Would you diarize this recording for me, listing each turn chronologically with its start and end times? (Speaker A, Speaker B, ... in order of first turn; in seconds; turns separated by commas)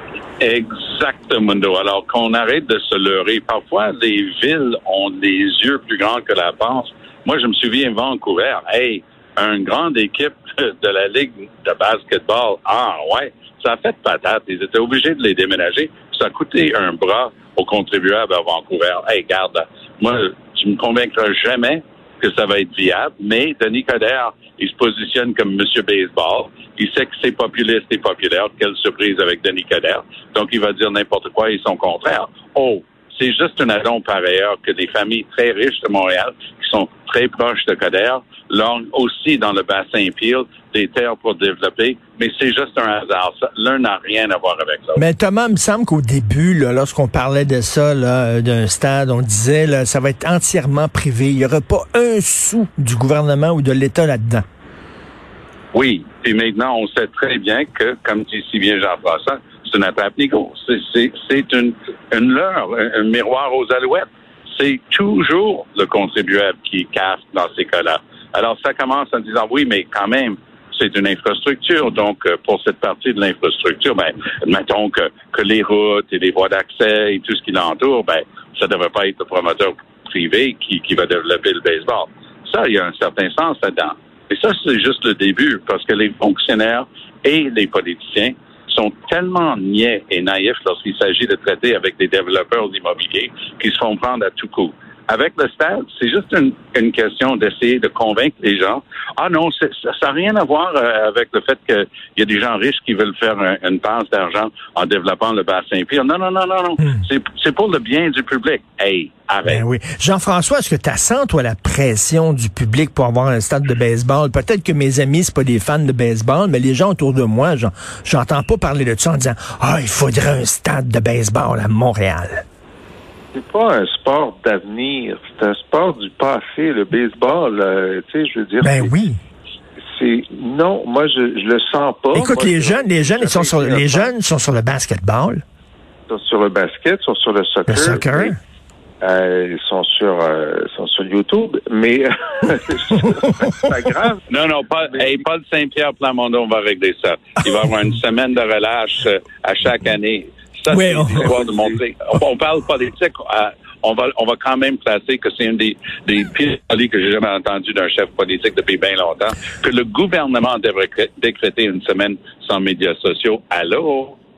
Speaker A: 0.4-45.0, Speaker B: 45.0-54.4, Speaker A: 55.7-109.6, Speaker B: 109.4-122.4, Speaker C: 123.3-128.9, Speaker B: 128.6-129.2, Speaker C: 129.9-134.1, Speaker B: 132.1-135.4, Speaker C: 136.1-138.3, Speaker B: 137.7-138.4, Speaker C: 139.0-144.2, Speaker A: 144.3-164.2, Speaker C: 144.9-145.2, Speaker B: 150.7-151.3, Speaker C: 151.1-151.8